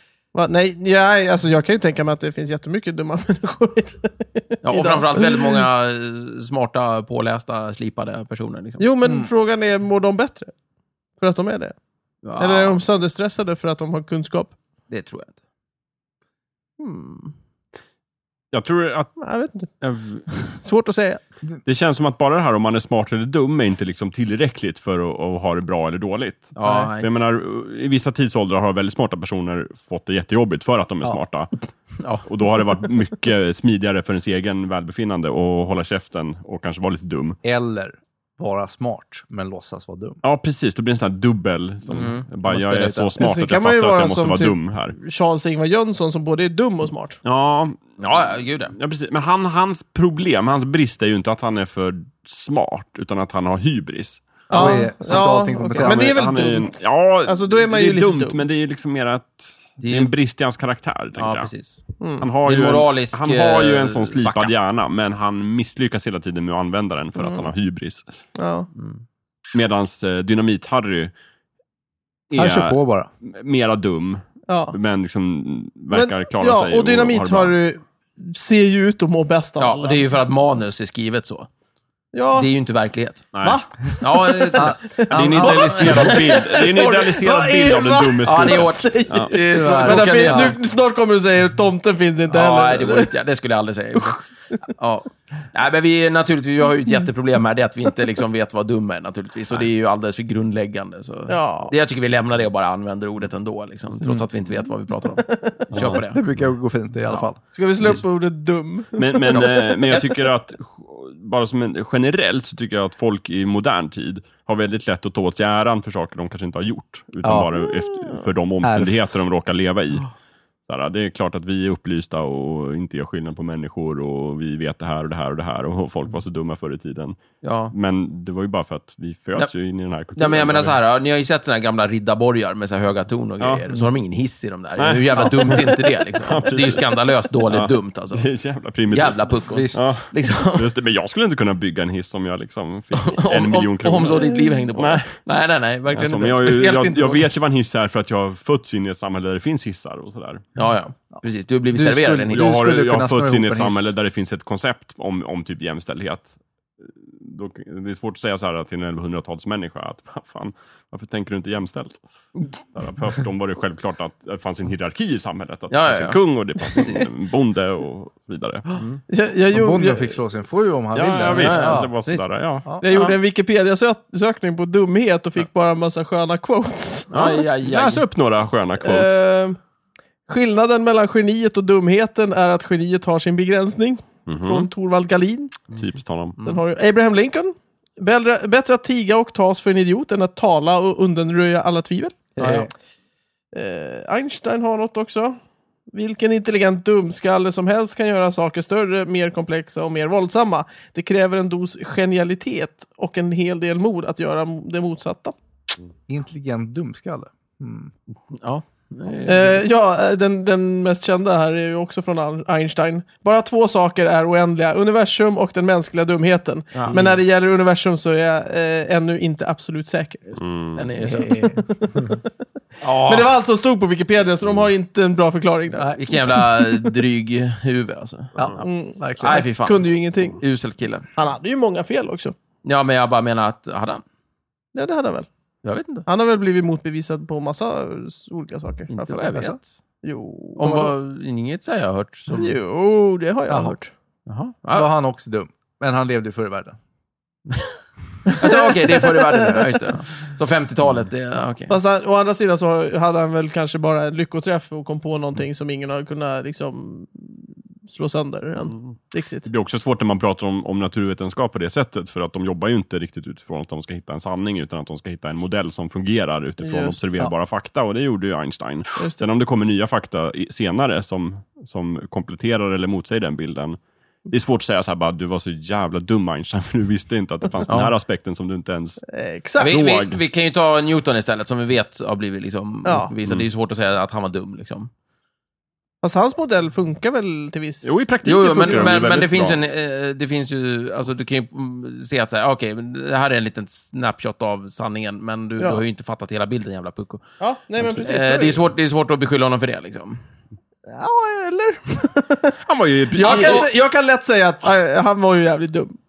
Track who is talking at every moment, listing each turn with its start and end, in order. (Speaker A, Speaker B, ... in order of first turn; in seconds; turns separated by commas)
Speaker A: 0.3-5.7, Speaker B: 4.6-8.8, Speaker A: 8.8-10.5, Speaker C: 9.0-9.3, Speaker A: 11.2-11.8, Speaker B: 12.2-12.8, Speaker A: 12.4-14.5, Speaker B: 14.9-15.4, Speaker A: 16.8-17.3, Speaker D: 18.5-19.1, Speaker A: 19.2-19.7, Speaker D: 19.8-20.3, Speaker A: 20.3-21.2, Speaker D: 21.7-31.5, Speaker B: 26.6-27.1, Speaker B: 32.0-32.2, Speaker D: 32.2-37.4, Speaker C: 37.4-40.2, Speaker D: 40.2-45.0, Speaker B: 41.9-42.2, Speaker C: 42.4-43.1, Speaker A: 43.2-47.2, Speaker D: 47.2-48.0, Speaker B: 48.0-48.7, Speaker D: 48.7-54.8, Speaker A: 54.5-58.4, Speaker C: 54.5-56.1, Speaker D: 55.8-61.5, Speaker B: 59.8-60.1, Speaker B: 61.2-61.8, Speaker A: 62.0-62.3, Speaker D: 62.2-68.0, Speaker B: 62.4-64.5, Speaker A: 67.2-67.5, Speaker A: 68.4-68.7, Speaker B: 68.8-69.0, Speaker D: 69.5-71.1, Speaker D: 72.3-77.5, Speaker C: 72.3-73.1, Speaker A: 74.5-74.8, Speaker A: 75.9-80.0, Speaker B: 79.6-81.5, Speaker A: 82.1-82.5, Speaker B: 82.3-83.3, Speaker D: 83.3-83.7, Speaker A: 83.4-93.1, Speaker B: 84.0-87.1, Speaker C: 84.5-86.1, Speaker D: 85.1-89.3, Speaker B: 88.2-90.6, Speaker C: 89.5-90.6, Speaker B: 92.3-94.2, Speaker B: 94.8-106.2, Speaker A: 101.3-101.7, Speaker A: 105.2-105.6, Speaker D: 105.7-106.0, Speaker C: 106.0-107.4, Speaker A: 107.5-110.1, Speaker D: 109.0-120.1, Speaker B: 109.3-109.6, Speaker C: 117.2-117.5, Speaker C: 118.6-119.2, Speaker D: 120.7-130.8, Speaker B: 127.4-127.7, Speaker B: 130.2-138.3, Speaker D: 134.8-136.9, Speaker C: 135.2-135.6, Speaker D: 137.5-145.2, Speaker B: 138.9-140.7, Speaker C: 139.5-139.8, Speaker B: 142.9-147.3, Speaker D: 145.9-150.5, Speaker B: 150.6-152.6, Speaker C: 151.7-153.9, Speaker D: 152.3-162.0, Speaker D: 162.7-168.7, Speaker B: 165.7-167.0, Speaker A: 169.1-170.2, Speaker C: 169.5-171.9, Speaker D: 170.9-172.7, Speaker B: 171.3-172.3, Speaker A: 172.8-177.3, Speaker B: 172.9-173.2, Speaker B: 177.1-178.0, Speaker D: 177.1-179.2, Speaker A: 178.8-179.6, Speaker A: 180.3-185.6, Speaker D: 184.3-184.7, Speaker D: 185.7-186.4, Speaker A: 186.4-192.3, Speaker C: 192.4-192.7, Speaker B: 192.4-192.7, Speaker A: 193.5-195.4, Speaker A: 195.9-205.3, Speaker C: 206.1-207.9, Speaker B: 208.3-209.6, Speaker A: 209.3-220.4, Speaker B: 216.8-217.2, Speaker D: 220.4-220.8, Speaker B: 220.8-221.5, Speaker A: 221.1-222.2, Speaker C: 221.1-221.6, Speaker B: 222.8-223.3, Speaker A: 222.9-226.5, Speaker C: 225.8-226.3, Speaker B: 226.0-228.3, Speaker C: 228.4-229.4, Speaker A: 228.6-230.4, Speaker B: 229.2-231.1, Speaker A: 231.2-232.3, Speaker B: 232.6-234.0, Speaker A: 234.8-235.3, Speaker B: 235.6-236.1, Speaker A: 236.1-240.9, Speaker B: 238.9-239.6, Speaker B: 240.6-242.5, Speaker A: 242.3-243.9, Speaker C: 243.5-243.8, Speaker B: 244.3-244.9, Speaker C: 244.7-246.8, Speaker A: 248.3-249.8, Speaker B: 248.4-251.7, Speaker A: 251.7-259.5, Speaker D: 259.5-273.8, Speaker A: 266.6-267.0, Speaker A: 269.0-269.2, Speaker D: 274.3-279.0, Speaker B: 277.7-277.9, Speaker A: 279.2-279.8, Speaker B: 279.6-284.9, Speaker D: 279.6-280.2, Speaker A: 282.9-283.1, Speaker A: 286.0-288.0, Speaker D: 287.8-289.6, Speaker B: 288.2-297.2, Speaker A: 297.4-298.6, Speaker B: 298.0-300.2, Speaker A: 300.9-302.6, Speaker D: 302.6-303.7, Speaker A: 303.1-305.9, Speaker B: 303.2-303.7